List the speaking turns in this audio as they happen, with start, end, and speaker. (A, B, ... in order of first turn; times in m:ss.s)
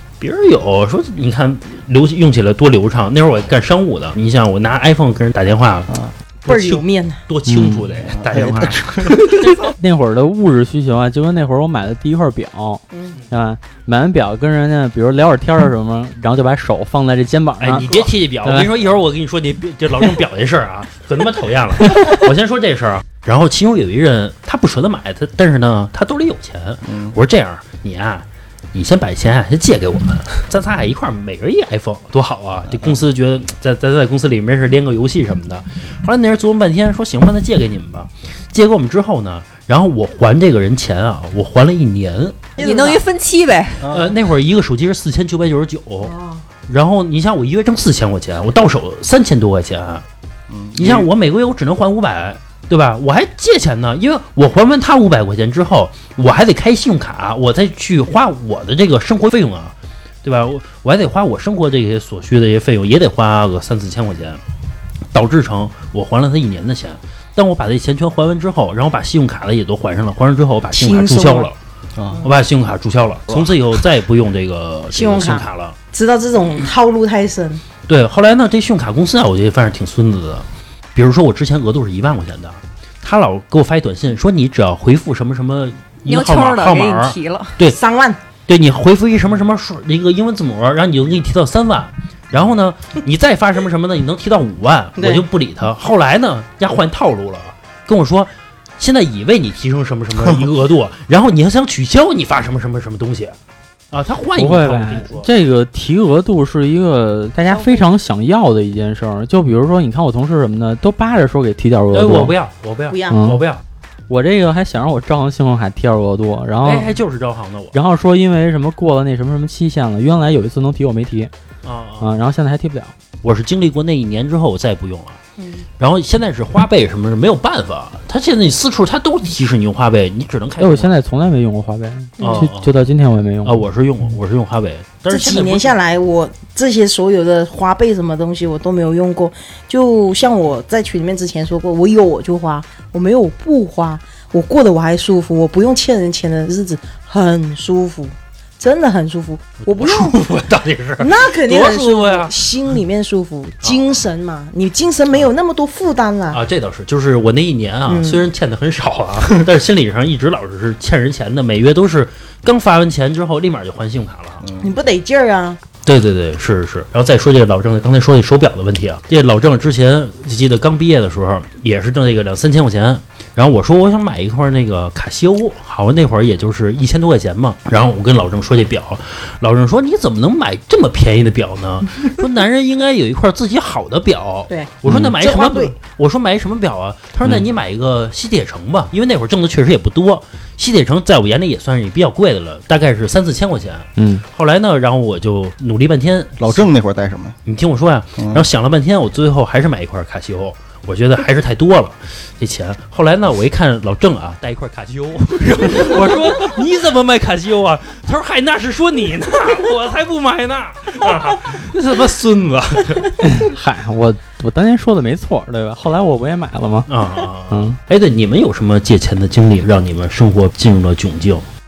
0:00.2-0:05.9 A
0:06.4-0:09.4 A
0:06.5-0:07.2 B
0:07.5-0:07.9 C
0:08.2-0:09.4 D
0:09.6-0:18.7 C
0:12.9-0:13.2 B
0:17.6-0:42.5 A
0:26.9-0:27.2 D
0:42.6-0:43.0 B
0:42.6-0:43.9 E
0:43.8-0:44.2 D
0:43.9-0:46.2 A
0:46.0-0:46.4 B
0:46.7-0:50.0 A
0:50.5-0:51.1 D
0:50.8-1:04.4 A
1:05.1-1:11.6 A
1:10.7-1:11.5 B
1:12.0-1:12.3 D
1:12.2-1:15.8 A
1:13.3-1:13.6 D
1:14.9-1:17.6 B
1:17.9-1:27.8 A
1:26.1-1:27.6 E
1:27.6-1:28.2 B
1:28.5-1:43.4 A
1:35.0-1:35.2 B
1:43.9-1:45.3 A
1:44.4-1:52.3 C
1:47.5-1:47.8 B
1:51.9-1:53.6 A
1:52.9-1:53.3 B
1:53.1-1:53.4 C
1:54.1-1:56.9 C
1:56.6-1:57.8 A
1:57.7-2:01.3 C
2:01.6-2:02.1 A
2:02.0-2:02.9 C
2:03.2-2:05.2 A
2:05.4-2:05.6 B
2:05.8-2:10.9 A
2:10.6-2:13.6 C
2:12.2-2:12.5 B
2:12.2-2:12.7 A
2:13.4-2:15.8 A
2:15.1-2:30.2 B
2:29.6-2:32.3 A
2:31.0-2:36.4 B
2:36.3-2:44.4 A
2:37.9-2:38.3 B
2:44.4-2:44.7 D
2:44.6-2:45.6 B
2:45.8-3:16.7 A
3:04.5-3:05.8 B
3:04.9-3:05.1 C
3:14.0-3:14.2 C
3:16.4-3:17.4 D
3:17.4-3:33.2 A
3:18.2-3:18.4 D
3:33.2-3:36.9 C
3:36.9-3:41.5 A
3:37.5-3:37.8 C